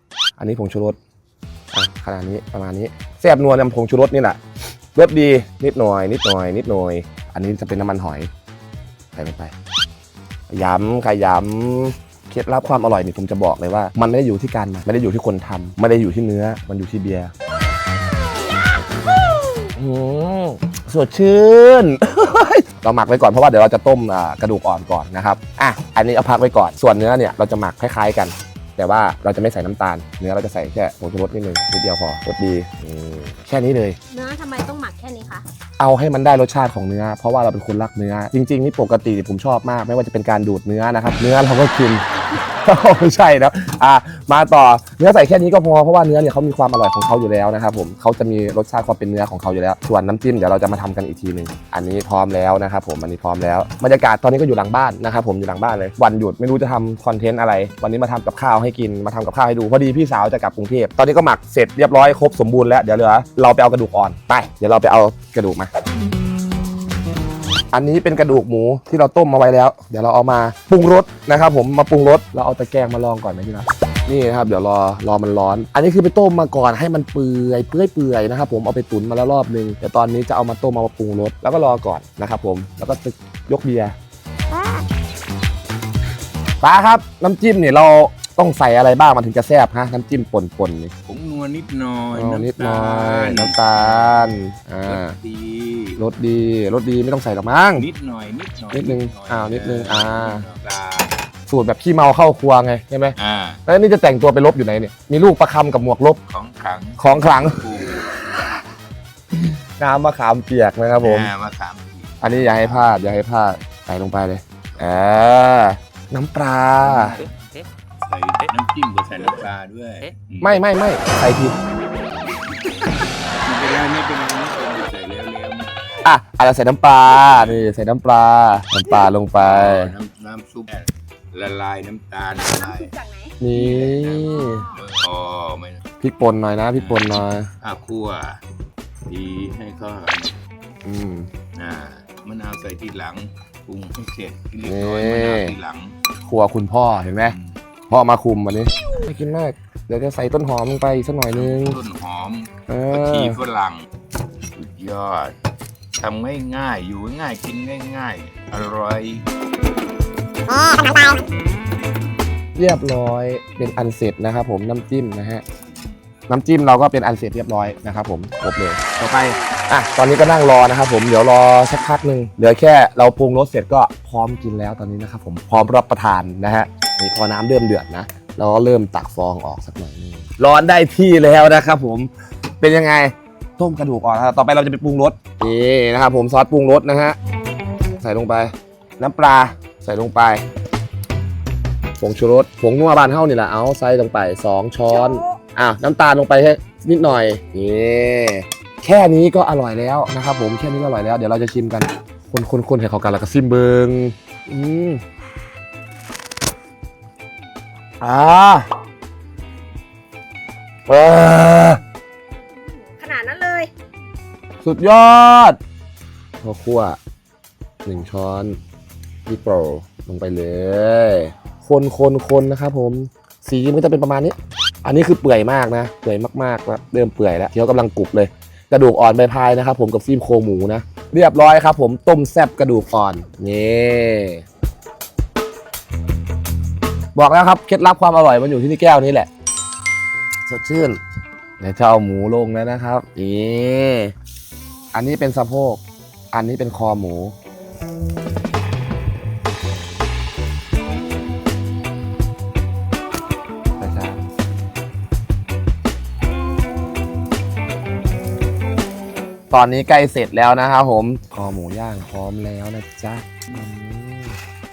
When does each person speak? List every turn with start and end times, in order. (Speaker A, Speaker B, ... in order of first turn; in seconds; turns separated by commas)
Speaker A: 0.4-1.0, Speaker A: 1.7-4.4, Speaker A: 4.9-8.3, Speaker A: 9.1-9.5, Speaker A: 10.5-17.3, Speaker A: 19.8-34.0, Speaker B: 34.1-35.4, Speaker A: 35.8-42.0, Speaker A: 42.6-65.7, Speaker A: 67.7-83.9, Speaker A: 86.6-90.9, Speaker C: 91.1-94.3, Speaker A: 92.1-95.2, Speaker C: 94.9-96.0, Speaker A: 96.0-97.9, Speaker C: 97.8-101.2, Speaker A: 98.7-100.5, Speaker A: 101.5-103.2, Speaker C: 103.2-103.6, Speaker A: 103.7-106.2, Speaker C: 106.3-108.2, Speaker A: 107.0-108.1, Speaker A: 109.8-111.3, Speaker C: 111.0-113.0, Speaker A: 112.2-117.2, Speaker C: 116.8-120.6, Speaker A: 120.4-121.6, Speaker C: 123.3-125.7, Speaker A: 126.0-129.9, Speaker C: 127.1-127.7, Speaker C: 129.4-132.9, Speaker B: 132.4-133.4, Speaker A: 133.4-134.7, Speaker C: 133.5-135.8, Speaker B: 134.2-134.8, Speaker A: 136.0-137.5, Speaker C: 136.8-138.4, Speaker C: 139.1-140.4, Speaker A: 140.8-141.3, Speaker C: 141.6-145.9, Speaker A: 144.6-145.6, Speaker A: 146.2-147.4, Speaker C: 147.2-147.6, Speaker A: 147.9-151.8, Speaker C: 151.3-153.9, Speaker A: 152.7-153.4, Speaker C: 154.6-155.3, Speaker C: 156.0-159.3, Speaker A: 162.6-165.4, Speaker A: 166.3-187.2, Speaker A: 188.0-190.4, Speaker A: 192.0-205.0, Speaker B: 194.9-195.4, Speaker A: 208.0-208.7, Speaker A: 210.9-211.8, Speaker B: 212.6-213.7, Speaker A: 214.6-215.6, Speaker A: 216.4-217.0, Speaker A: 217.8-218.6, Speaker A: 219.3-234.4, Speaker A: 237.2-239.3, Speaker A: 240.5-241.0, Speaker A: 241.6-244.1, Speaker A: 244.9-245.8, Speaker A: 246.3-247.3, Speaker A: 253.8-254.2, Speaker A: 259.5-264.4